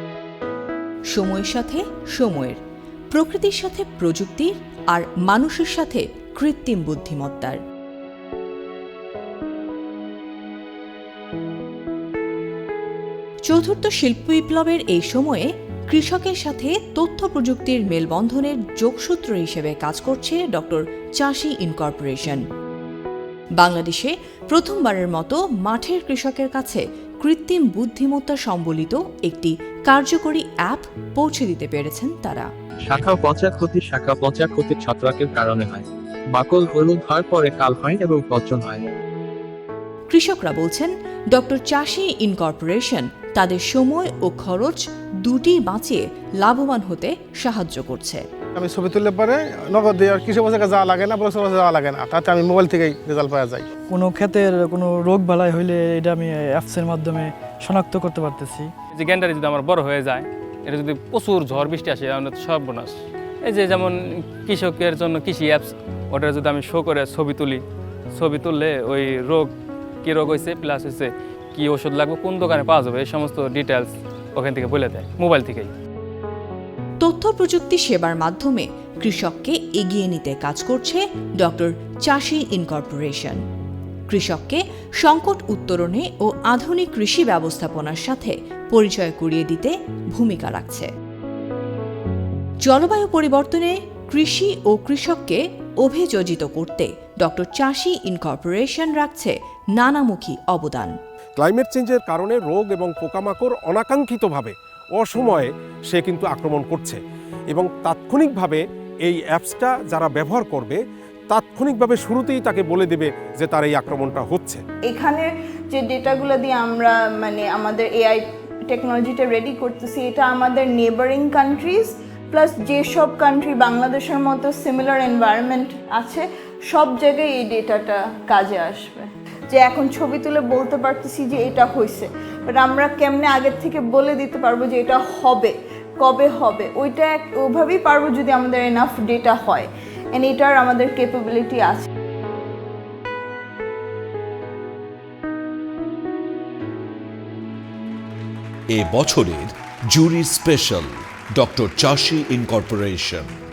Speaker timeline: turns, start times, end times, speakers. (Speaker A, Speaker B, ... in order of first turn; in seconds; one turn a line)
Speaker A: 1.1-2.6
Speaker A: 3.1-7.6
Speaker A: 13.5-22.4
Speaker A: 23.6-32.5
Speaker B: 32.8-38.9
Speaker A: 40.1-48.2
Speaker C: 48.5-53.7
Speaker D: 53.9-58.7
Speaker E: 58.9-67.6
Speaker E: 68.2-69.5
Speaker E: 70.0-75.7
Speaker A: 77.0-83.4
Speaker A: 84.1-90.9
Speaker A: 92.7-100.9
Speaker F: 101.4-107.0
Speaker F: 107.5-110.8
Speaker F: 111.3-114.6
Speaker G: 114.8-141.9
Speaker H: 148.7-153.3